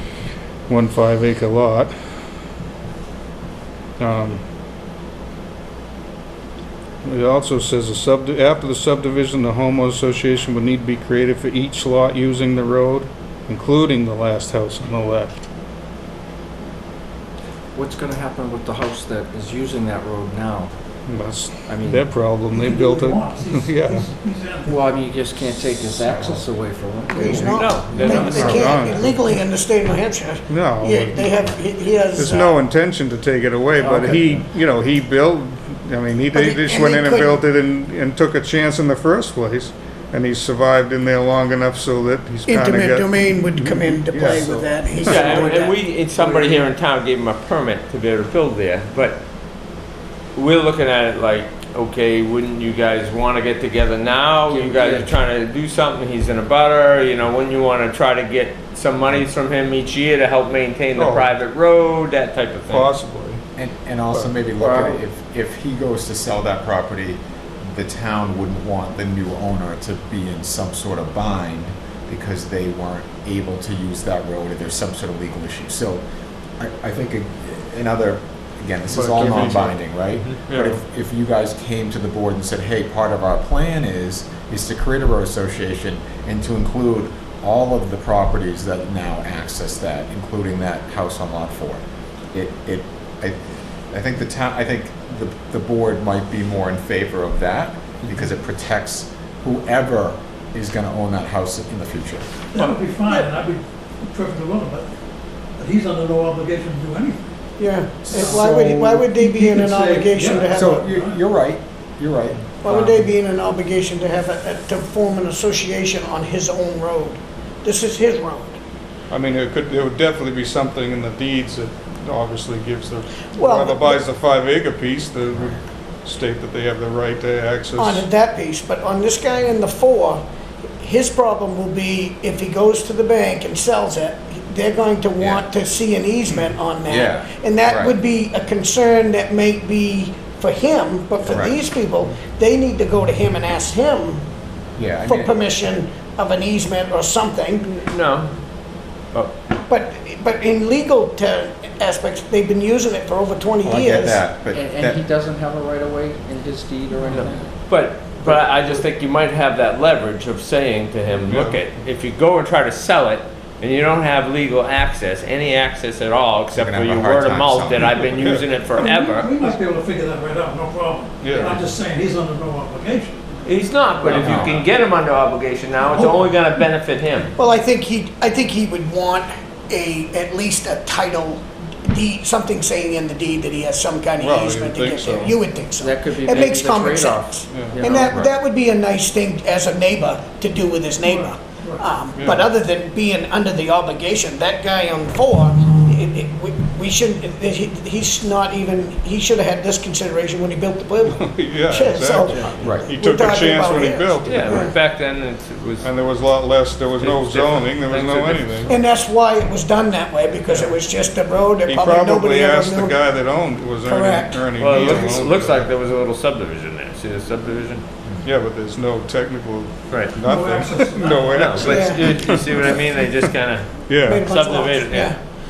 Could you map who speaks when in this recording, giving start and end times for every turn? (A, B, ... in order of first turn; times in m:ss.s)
0:00.7-0:01.9 A
0:04.0-0:04.4 A
0:07.0-0:15.3 A
0:17.8-0:20.7 B
0:21.1-0:24.1 A
0:21.7-0:22.1 B
0:22.5-0:24.9 C
0:24.7-0:27.6 B
0:27.1-0:32.6 D
0:27.4-0:28.8 E
0:28.0-0:29.2 A
0:28.0-0:28.5 C
0:30.5-0:31.3 A
0:32.2-0:45.2 A
0:33.9-0:34.2 B
0:36.3-0:37.4 D
0:42.5-0:45.7 D
0:45.0-0:49.2 E
0:45.2-0:46.7 B
0:50.4-1:02.9 E
0:54.5-0:55.1 B
1:01.0-1:01.3 A
1:02.7-1:03.4 A
1:03.6-1:16.0 F
1:04.6-1:05.0 E
1:16.6-1:31.8 F
1:18.9-1:19.7 A
1:19.2-1:19.5 B
1:20.5-1:20.8 A
1:32.3-1:42.3 F
1:42.5-1:44.9 C
1:42.6-1:43.3 E
1:45.6-1:47.2 C
1:47.6-1:50.8 D
1:48.1-1:49.1 F
1:48.1-1:48.6 C
1:49.1-1:51.2 C
1:50.4-1:53.0 F
1:52.6-1:58.6 D
1:59.1-2:08.0 A
2:03.4-2:04.0 D
2:07.8-2:10.2 D
2:10.8-2:24.2 D
2:15.2-2:15.4 F
2:16.8-2:18.0 F
2:21.3-2:21.6 F
2:24.8-2:25.4 F
2:25.1-2:27.8 D
2:27.8-2:28.3 E
2:29.7-2:34.2 D
2:33.6-2:35.0 F
2:34.5-2:37.5 B
2:37.1-2:49.4 E
2:41.3-2:41.6 A
2:46.5-2:47.9 F
2:47.8-2:48.5 A
2:48.8-2:53.5 C
2:51.2-2:51.6 A
2:53.4-2:57.3 E
2:54.0-2:54.5 C
2:54.2-2:54.7 F
2:55.9-2:56.3 C
2:57.4-3:24.7 D
3:04.2-3:05.4 A
3:05.8-3:08.2 B
3:07.5-3:07.8 A
3:11.0-3:11.8 C
3:12.2-3:12.5 A
3:21.1-3:24.7 A
3:22.6-3:22.9 F
3:24.3-3:25.9 E
3:25.8-3:28.7 A
3:27.0-3:28.8 E
3:28.7-3:33.0 D
3:31.7-3:35.7 A
3:33.8-3:35.2 D
3:34.6-3:37.8 E
3:38.2-3:42.7 A
3:39.9-3:40.2 E
3:40.2-3:41.6 C
3:41.3-3:45.2 E
3:41.6-3:42.1 D
3:43.9-3:44.3 A
3:44.0-3:45.2 D